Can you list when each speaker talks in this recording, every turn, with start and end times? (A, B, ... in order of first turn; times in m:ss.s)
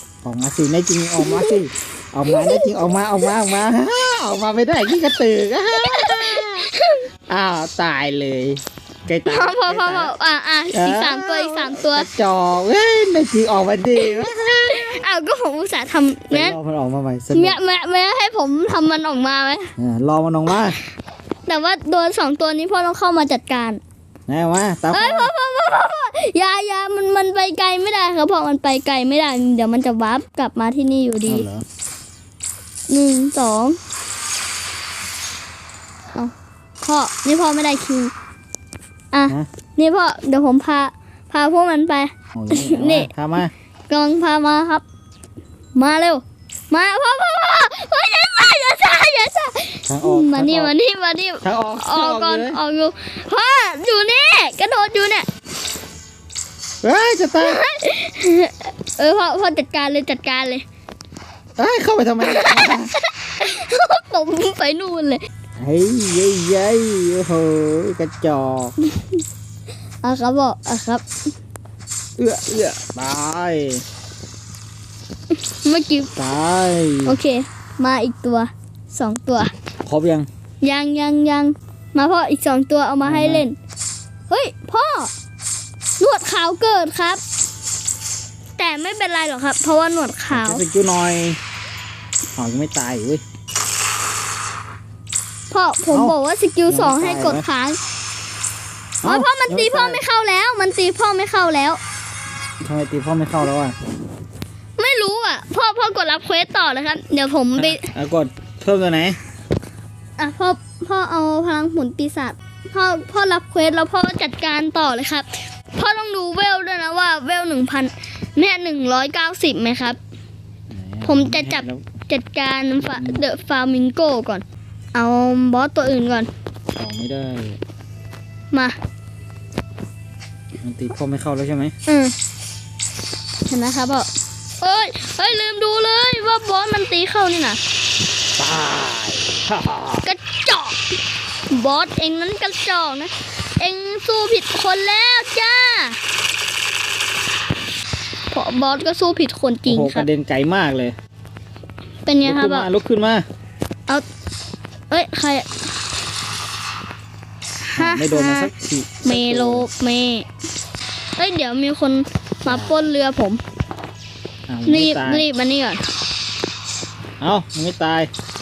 0:00.2-0:06.7 A
0:01.2-0:01.6 B
0:02.3-0:02.7 B
0:05.8-0:07.0 B
0:07.3-0:10.1 A
0:09.2-0:12.1 B
0:10.7-0:15.0 A
0:14.0-0:16.6 B
0:16.3-0:17.6 A
0:17.3-0:19.7 B
0:19.8-0:20.8 A
0:21.5-0:23.8 B
0:24.3-0:25.3 A
0:24.9-0:31.5 B
0:31.3-0:31.6 A
0:32.9-0:33.8 B
0:36.1-0:38.1 B
0:39.1-0:43.1 B
0:42.3-0:43.5 A
0:43.9-0:44.8 B
0:45.7-0:55.3 B
0:49.8-0:50.7 A
0:51.4-0:52.6 A
0:56.8-0:57.6 A
0:57.4-1:00.6 B
1:01.6-1:02.9 A
1:02.2-1:05.2 B
1:05.6-1:08.7 A
1:08.8-1:09.1 B
1:10.0-1:11.0 B
1:12.2-1:13.8 A
1:15.3-1:16.1 B
1:16.2-1:17.2 A
1:17.0-1:19.5 B
1:19.8-1:20.3 A
1:20.6-1:23.5 B
1:23.0-1:23.5 A
1:24.3-1:25.1 B
1:26.0-1:27.2 B
1:28.6-1:30.6 B
1:30.3-1:31.4 A
1:32.4-1:33.2 A
1:35.5-1:37.8 B
1:36.7-1:37.4 A
1:39.0-1:40.0 A
1:39.0-1:41.8 B
1:42.6-1:43.8 A
1:44.8-1:47.8 B
1:47.6-1:49.2 A
1:50.2-2:00.0 B
2:00.7-2:01.8 A
2:01.0-2:06.3 B
2:02.8-2:03.2 A
2:06.7-2:07.6 A
2:10.6-2:11.7 A
2:11.8-2:12.1 B
2:13.4-2:14.1 B
2:14.6-2:17.6 B
2:18.4-2:20.0 A
2:20.0-2:20.8 B
2:21.5-2:26.0 B
2:28.3-2:30.1 B
2:29.7-2:31.0 A
2:32.0-2:32.7 B
2:32.2-2:33.2 A
2:34.9-2:35.8 B
2:37.6-2:38.5 B
2:37.8-2:39.7 A
2:39.0-2:40.3 B
2:41.2-2:43.4 B
2:42.4-2:42.8 A
2:44.5-2:45.2 A
2:44.6-2:45.8 B
2:47.2-2:48.1 A